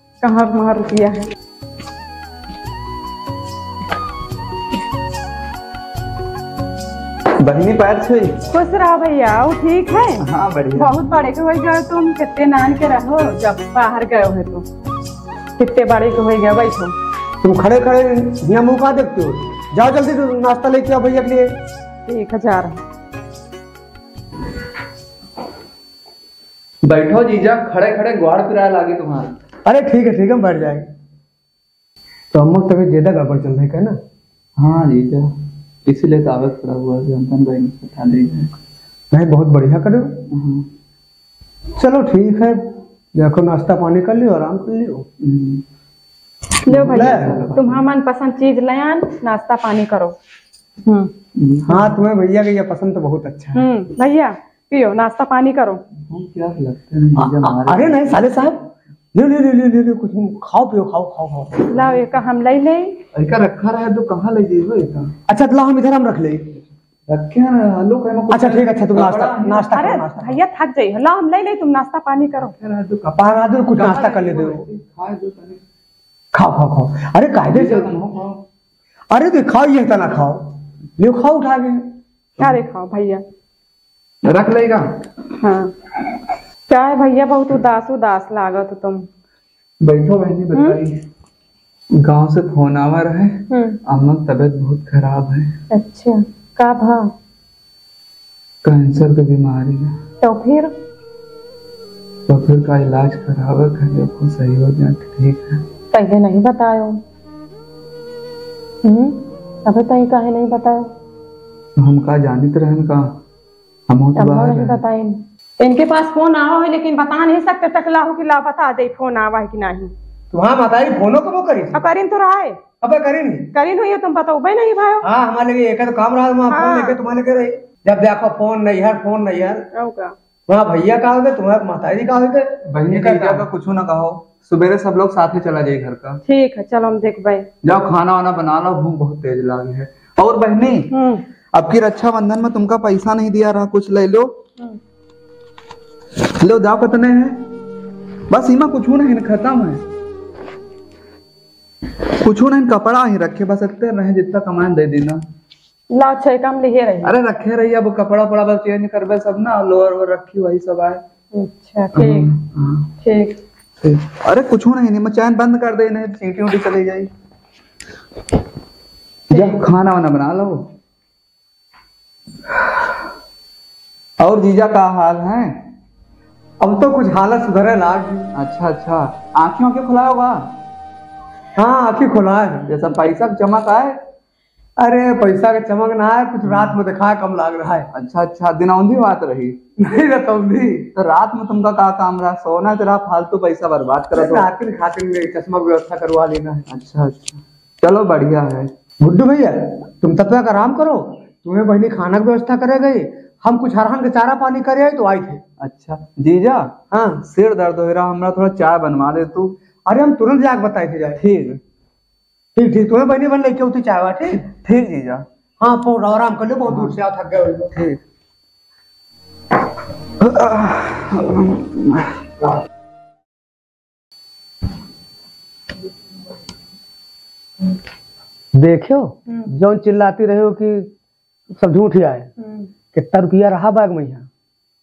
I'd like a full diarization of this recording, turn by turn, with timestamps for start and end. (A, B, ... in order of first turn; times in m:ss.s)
0:00.2-0:01.3 A
0:07.4-0:08.3 B
0:08.5-0:10.2 A
0:10.2-0:10.9 B
0:10.8-0:14.7 A
0:15.6-0:17.0 A
0:17.4-0:21.5 C
0:22.1-0:22.8 A
0:26.8-0:29.4 B
0:29.7-0:30.9 C
0:32.3-0:34.0 C
0:34.6-0:35.3 B
0:35.9-0:38.5 B
0:39.1-0:40.2 C
0:40.3-0:40.7 B
0:41.8-0:45.1 C
0:45.2-0:45.6 B
0:46.7-0:50.2 A
0:46.7-0:47.8 B
0:46.9-0:47.4 C
0:50.8-0:51.1 A
0:51.4-0:51.9 B
0:51.7-0:53.7 C
0:53.6-0:55.8 A
0:56.1-0:58.2 B
0:57.2-1:01.7 C
1:01.7-1:03.0 A
1:03.2-1:05.1 B
1:05.3-1:06.5 C
1:07.1-1:10.1 B
1:08.3-1:10.4 C
1:09.7-1:12.5 A
1:12.5-1:15.6 B
1:13.2-1:14.6 C
1:16.3-1:17.9 C
1:17.5-1:18.4 B
1:19.1-1:22.0 C
1:22.4-1:23.2 A
1:24.2-1:24.9 B
1:25.4-1:25.7 A
1:26.7-1:29.1 A
1:29.8-1:30.9 B
1:30.5-1:30.8 A
1:32.0-1:35.5 B
1:33.5-1:33.8 A
1:35.7-1:37.1 A
1:38.6-1:39.9 B
1:40.2-1:40.7 A
1:42.3-1:45.6 B
1:45.9-1:47.0 A
1:48.8-1:50.9 A
1:51.8-1:53.1 B
1:53.9-1:54.8 B
1:54.2-1:59.9 A
2:00.3-2:01.8 C
2:01.7-2:02.6 A
2:02.8-2:03.5 C
2:03.5-2:05.1 A
2:05.0-2:09.7 C
2:06.5-2:07.0 A
2:09.7-2:10.2 A
2:10.5-2:13.5 C
2:12.7-2:16.2 B
2:16.3-2:17.5 A
2:17.6-2:20.9 B
2:20.9-2:21.2 A
2:21.5-2:24.4 B
2:26.4-2:27.5 B
2:28.3-2:29.8 B
2:32.2-2:35.2 B
2:35.9-2:37.2 A
2:37.0-2:41.0 B
2:41.3-2:42.3 A
2:42.0-2:42.9 B
2:43.0-2:43.4 A
2:43.8-2:47.1 B
2:49.3-2:50.6 B
2:54.2-2:55.6 B
2:56.6-2:58.3 C
2:58.4-3:00.5 B
3:01.6-3:02.6 C
3:02.7-3:04.0 B
3:04.8-3:07.9 C
3:06.5-3:06.8 B
3:07.9-3:09.6 B
3:09.8-3:10.9 C
3:11.0-3:14.5 B
3:14.1-3:16.6 C
3:16.7-3:18.7 B
3:19.0-3:25.4 C
3:25.6-3:26.7 B
3:26.9-3:27.2 C
3:27.2-3:29.5 B
3:29.9-3:31.2 C
3:31.2-3:31.6 B
3:32.6-3:34.4 C
3:34.4-3:35.2 B
3:35.6-3:37.8 C
3:36.7-3:37.0 B
3:40.2-3:42.2 B
3:48.6-3:50.9 C
3:51.5-3:52.3 C
3:52.4-3:52.7 A
3:52.9-3:54.3 C